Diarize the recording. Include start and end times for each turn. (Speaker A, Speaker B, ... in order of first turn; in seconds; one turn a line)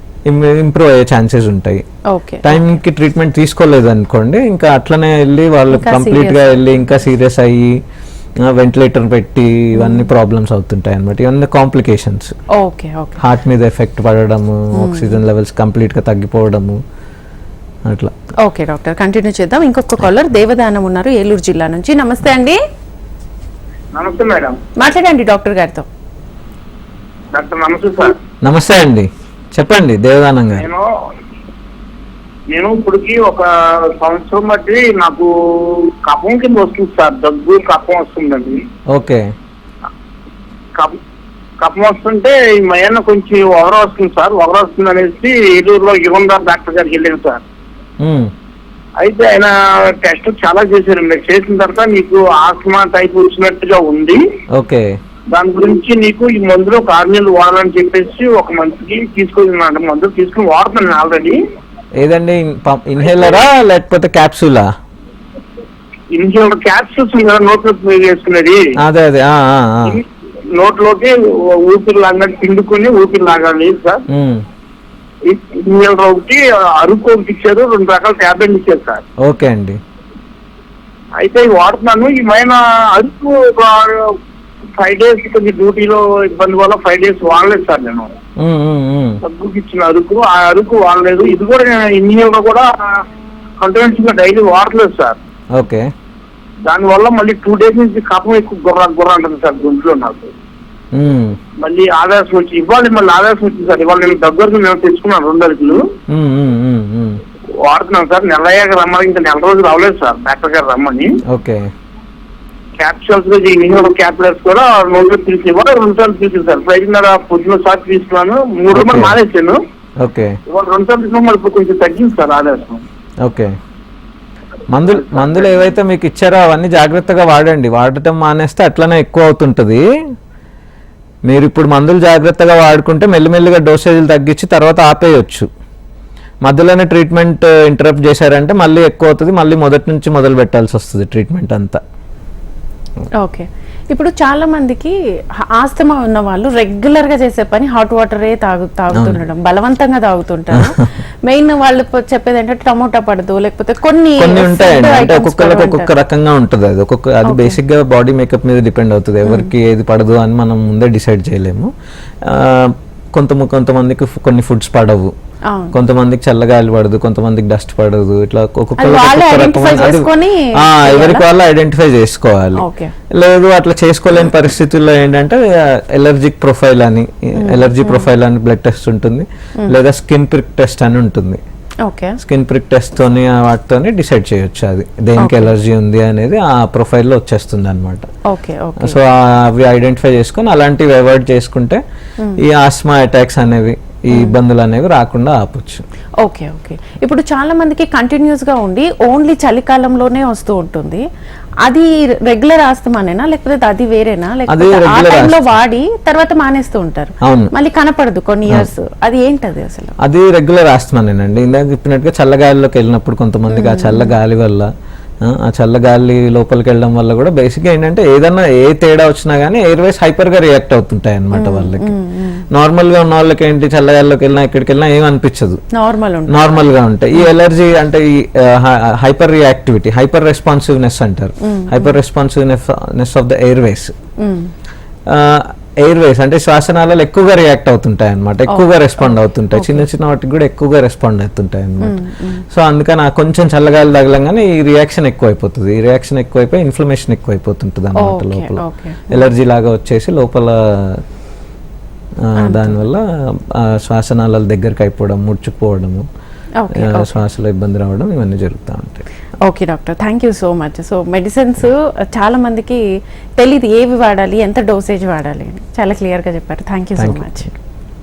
Speaker A: 0.3-1.8
Speaker B: 2.1-2.8
Speaker A: 2.5-7.8
Speaker B: 5.7-6.6
Speaker A: 8.4-12.3
Speaker B: 9.8-10.1
Speaker B: 12.5-13.2
Speaker A: 13.2-16.8
Speaker B: 14.7-15.2
Speaker A: 17.9-18.1
Speaker B: 18.4-22.6
Speaker C: 23.9-24.6
Speaker B: 24.8-25.9
Speaker C: 27.3-28.2
Speaker A: 28.4-30.7
Speaker C: 30.6-31.1
Speaker C: 32.5-38.6
Speaker A: 38.9-39.3
Speaker C: 41.6-47.4
Speaker A: 48.0-48.3
Speaker C: 49.0-54.2
Speaker A: 54.5-55.0
Speaker C: 55.3-61.4
Speaker A: 62.0-64.7
Speaker C: 66.1-68.7
Speaker A: 68.8-70.0
Speaker C: 69.9-74.0
Speaker A: 74.1-74.5
Speaker C: 75.2-79.0
Speaker A: 79.2-79.8
Speaker C: 81.2-84.2
Speaker C: 84.8-88.1
Speaker A: 88.4-89.2
Speaker C: 89.2-93.0
Speaker C: 93.6-95.2
Speaker A: 95.5-95.9
Speaker C: 96.7-100.3
Speaker A: 100.9-101.4
Speaker C: 101.6-105.8
Speaker A: 106.1-107.2
Speaker C: 107.6-111.2
Speaker A: 111.3-111.7
Speaker C: 112.8-119.6
Speaker A: 118.7-119.2
Speaker A: 120.0-120.4
Speaker C: 120.5-122.8
Speaker A: 123.2-123.6
Speaker A: 124.7-129.8
Speaker C: 125.0-125.5
Speaker A: 131.3-135.5
Speaker A: 136.4-141.8
Speaker B: 143.2-155.9
Speaker A: 148.9-149.2
Speaker A: 150.5-150.8
Speaker A: 154.2-161.7
Speaker B: 157.2-157.6
Speaker B: 159.2-159.5
Speaker A: 162.2-165.1
Speaker B: 165.5-165.7
Speaker A: 165.7-181.4
Speaker B: 168.8-171.2
Speaker B: 172.6-172.9
Speaker B: 177.4-178.1
Speaker B: 181.8-182.2
Speaker A: 182.2-188.1
Speaker B: 185.2-185.5
Speaker B: 188.3-189.0
Speaker A: 188.8-191.8
Speaker A: 192.4-195.8
Speaker B: 196.2-201.0
Speaker B: 201.6-210.0
Speaker A: 204.5-205.5
Speaker A: 207.2-207.5
Speaker A: 210.0-214.7
Speaker B: 213.5-214.1
Speaker A: 215.2-221.9
Speaker B: 221.3-222.5
Speaker A: 222.5-225.6
Speaker B: 225.7-226.6
Speaker A: 226.3-233.9
Speaker B: 231.4-232.0
Speaker B: 234.2-234.5
Speaker A: 235.1-251.0
Speaker B: 238.5-239.8
Speaker B: 241.8-242.4
Speaker B: 248.0-249.2
Speaker A: 252.2-256.1
Speaker B: 252.4-252.8
Speaker B: 256.6-257.2
Speaker A: 256.7-259.1
Speaker B: 259.4-262.8
Speaker B: 263.4-267.5
Speaker A: 267.0-267.5